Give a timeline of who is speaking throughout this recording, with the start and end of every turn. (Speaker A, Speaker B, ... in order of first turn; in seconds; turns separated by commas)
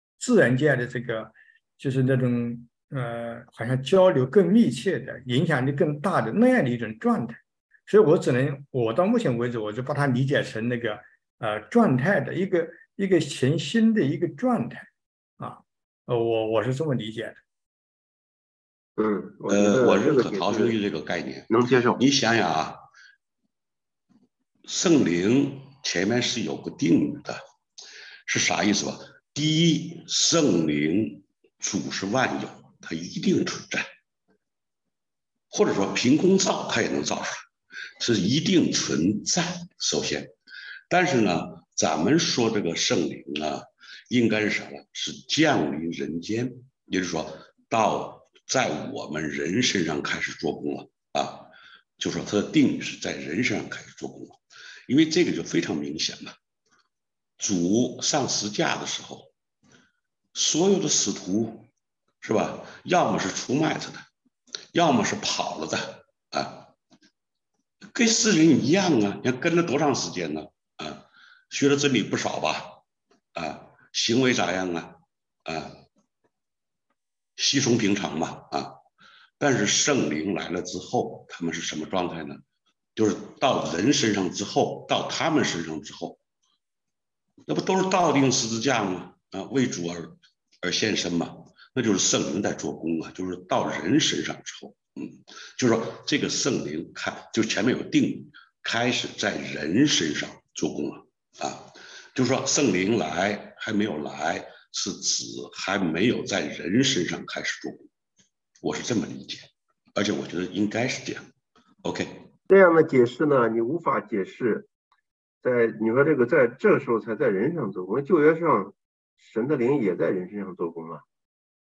Speaker A: 0.2-14.9, Speaker A: 15.4-17.4, Speaker B: 19.0-20.8, Speaker C: 19.5-22.8, Speaker B: 21.5-22.0, Speaker C: 24.7-27.4, Speaker C: 28.3-33.9, Speaker C: 35.5-37.5, Speaker C: 38.0-40.3, Speaker C: 40.9-56.3, Speaker C: 57.4-59.3, Speaker C: 60.3-61.6, Speaker C: 62.2-64.0, Speaker C: 64.7-66.7, Speaker C: 67.9-72.8, Speaker C: 73.3-75.8, Speaker C: 77.4-78.8, Speaker C: 79.4-82.4, Speaker C: 83.0-86.2, Speaker C: 87.5-107.8, Speaker C: 108.6-111.3, Speaker C: 111.8-112.3, Speaker B: 112.5-114.7, Speaker B: 115.4-121.0